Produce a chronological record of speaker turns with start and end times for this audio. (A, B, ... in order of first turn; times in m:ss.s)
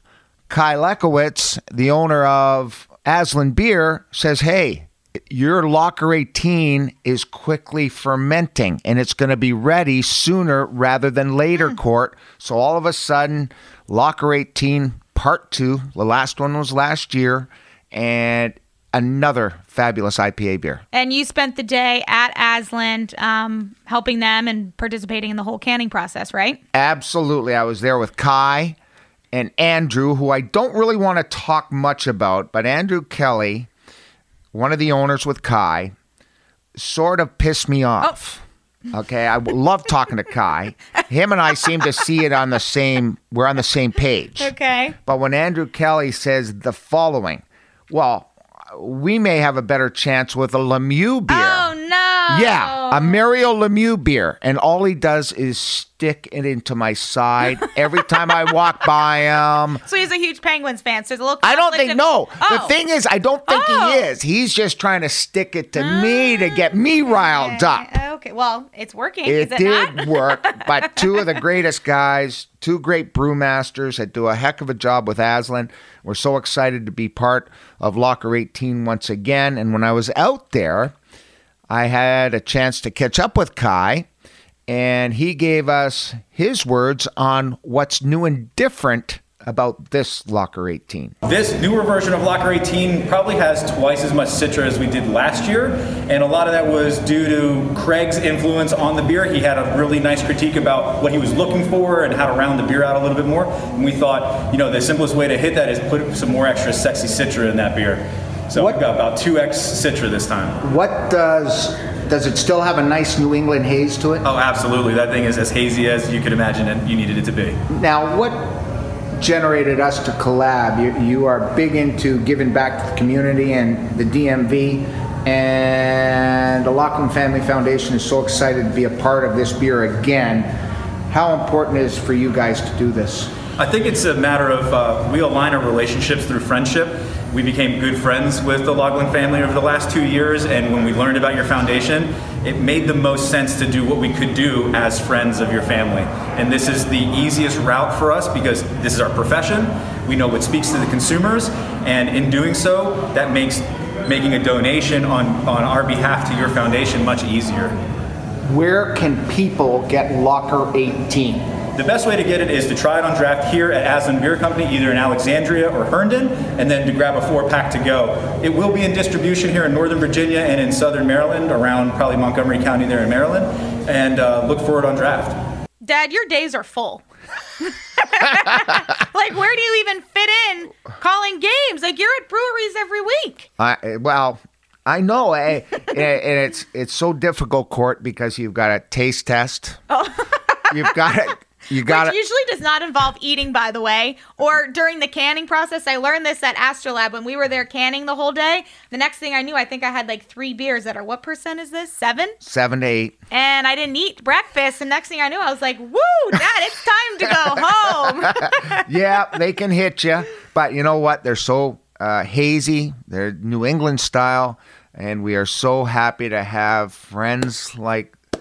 0:00.5-0:20.8 A
0:20.9-0:26.6 B
0:26.7-0:28.8 A
0:29.3-0:33.7 A
0:34.5-0:35.9 A
0:36.8-0:44.5 A
0:44.4-0:45.0 B
0:45.0-0:51.7 A
0:51.3-0:53.2 B
0:52.3-0:59.8 A
0:59.8-1:02.7 B
1:01.4-1:07.9 A
1:03.5-1:04.0 B
1:05.8-1:11.2 B
1:09.2-1:21.0 A
1:21.7-1:24.1 A
1:24.7-1:31.1 A
1:31.2-1:50.6 C
1:50.6-1:54.2 A
1:54.2-1:57.6 C
1:57.7-2:10.5 A
2:11.1-2:13.3 A
2:13.6-2:37.8 C
2:38.5-2:41.4 A
2:41.8-2:55.4 C
2:55.8-2:57.0 B
2:57.6-3:03.5 B
3:03.6-3:09.8 A
3:09.9-3:10.9 B
3:10.7-3:12.2 A
3:11.8-3:22.4 B
3:22.4-3:23.2 A
3:23.3-3:28.8 B
3:28.3-3:38.2 A